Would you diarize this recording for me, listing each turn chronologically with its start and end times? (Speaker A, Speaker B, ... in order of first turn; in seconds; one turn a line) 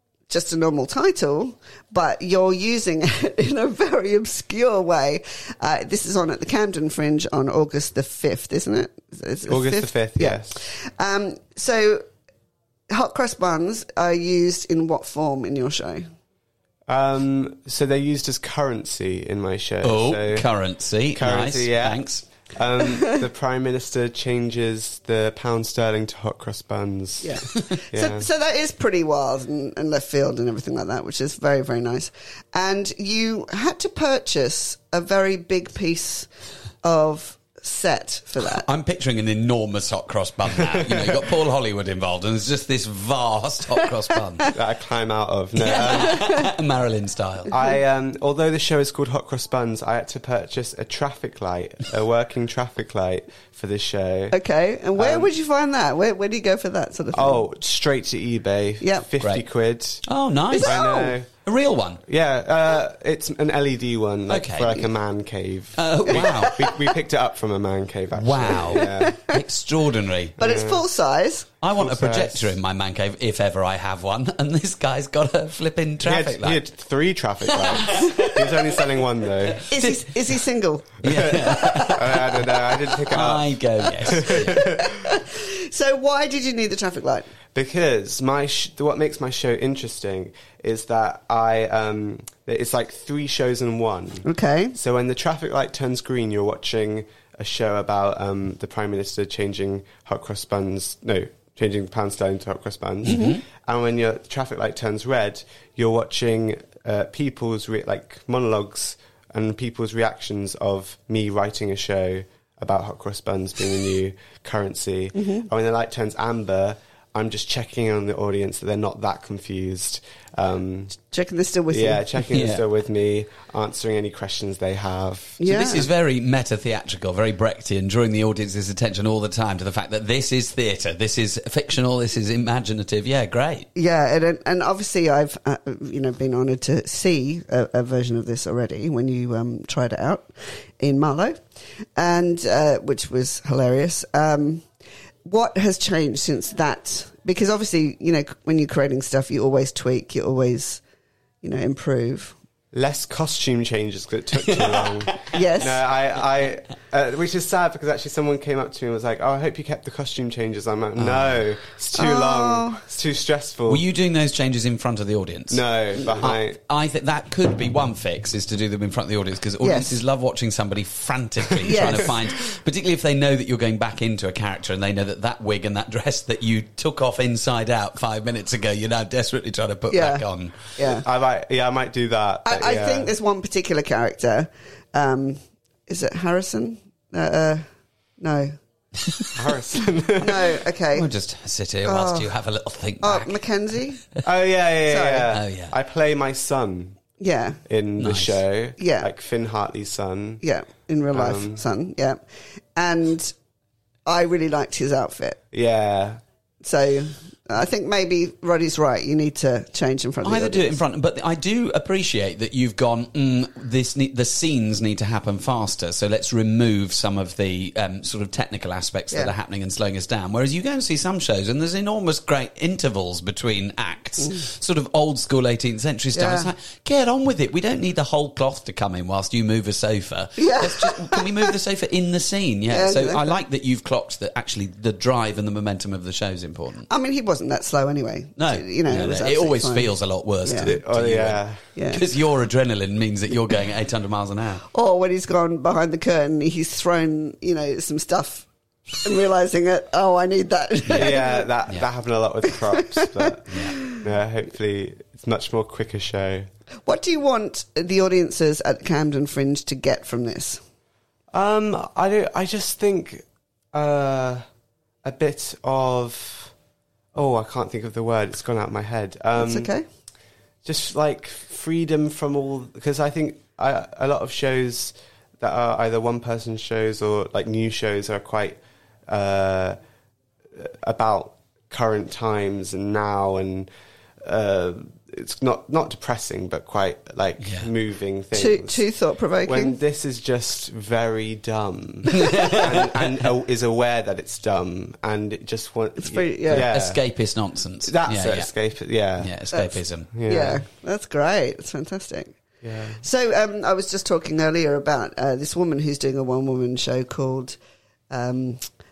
Speaker A: 0.3-12.1
Speaker B: 9.5-10.6
Speaker A: 12.9-16.1
Speaker B: 16.9-20.5
Speaker C: 19.8-22.2
Speaker B: 21.1-28.3
Speaker A: 27.2-36.3
Speaker A: 36.8-38.7
Speaker C: 38.4-44.5
Speaker B: 44.5-46.3
Speaker C: 45.6-47.5
Speaker A: 46.0-46.5
Speaker B: 47.5-54.4
Speaker A: 54.3-57.5
Speaker B: 55.0-55.3
Speaker B: 57.1-60.1
Speaker A: 58.8-59.1
Speaker C: 60.0-62.0
Speaker A: 60.5-61.2
Speaker B: 60.6-61.4
Speaker B: 62.1-69.2
Speaker C: 64.3-64.9
Speaker C: 65.8-66.7
Speaker A: 66.2-66.5
Speaker C: 68.1-70.4
Speaker A: 68.7-69.4
Speaker A: 70.4-71.5
Speaker B: 70.4-70.8
Speaker C: 71.6-76.6
Speaker B: 71.7-72.5
Speaker B: 76.0-79.7
Speaker C: 77.5-78.7
Speaker A: 79.7-82.0
Speaker C: 79.7-80.1
Speaker C: 81.0-84.7
Speaker B: 81.1-84.8
Speaker A: 84.2-87.3
Speaker B: 87.5-121.0
Speaker A: 94.2-94.8
Speaker C: 103.0-103.4
Speaker A: 103.1-103.4
Speaker A: 115.2-115.5
Speaker A: 121.1-122.0
Speaker B: 121.7-125.4
Speaker C: 122.3-122.7
Speaker A: 125.4-125.9
Speaker C: 125.4-133.7
Speaker A: 133.8-141.4
Speaker A: 142.0-144.7
Speaker A: 145.2-150.8
Speaker A: 151.4-152.3
Speaker B: 152.7-163.8
Speaker C: 154.4-155.1
Speaker A: 155.3-155.8
Speaker C: 161.0-161.4
Speaker A: 161.9-162.8
Speaker C: 163.7-180.6
Speaker B: 165.5-166.6
Speaker A: 169.6-169.9
Speaker A: 171.6-172.1
Speaker A: 179.9-180.2
Speaker A: 180.8-181.0
Speaker B: 180.8-183.1
Speaker A: 182.4-187.6
Speaker A: 188.2-188.6
Speaker B: 189.3-190.5
Speaker A: 190.2-191.1
Speaker C: 190.9-193.4
Speaker A: 191.8-192.3
Speaker A: 193.0-194.1
Speaker B: 194.2-197.0
Speaker A: 194.9-195.3
Speaker C: 195.3-195.8
Speaker A: 197.2-197.6
Speaker B: 197.7-200.4
Speaker C: 198.0-198.4
Speaker A: 198.8-199.1
Speaker A: 200.4-202.2
Speaker B: 201.1-201.6
Speaker A: 202.8-203.3
Speaker A: 204.1-205.4
Speaker B: 205.5-206.2
Speaker A: 206.6-210.8
Speaker C: 210.2-236.9
Speaker A: 226.2-226.5
Speaker A: 230.4-231.5
Speaker A: 232.7-233.4
Speaker A: 236.9-239.9
Speaker C: 238.4-244.6
Speaker A: 240.4-240.8
Speaker B: 240.6-241.7
Speaker A: 241.8-242.0
Speaker A: 244.7-248.5
Speaker A: 249.0-251.5
Speaker C: 250.9-251.9
Speaker B: 250.9-256.5
Speaker A: 252.9-253.9
Speaker C: 253.5-253.8
Speaker A: 256.9-260.6
Speaker B: 261.3-264.4
Speaker B: 265.0-266.5
Speaker B: 267.1-269.7
Speaker A: 269.4-269.9
Speaker B: 270.6-279.8
Speaker B: 280.6-283.7
Speaker B: 284.2-288.9
Speaker C: 287.4-287.7
Speaker A: 288.4-289.8
Speaker B: 289.5-297.0
Speaker C: 292.1-293.1
Speaker A: 296.0-296.7
Speaker C: 296.5-298.5
Speaker B: 297.9-299.3
Speaker C: 299.2-300.1
Speaker B: 300.1-300.6
Speaker A: 300.2-302.3
Speaker B: 302.6-303.0
Speaker A: 303.0-307.6
Speaker A: 308.1-308.7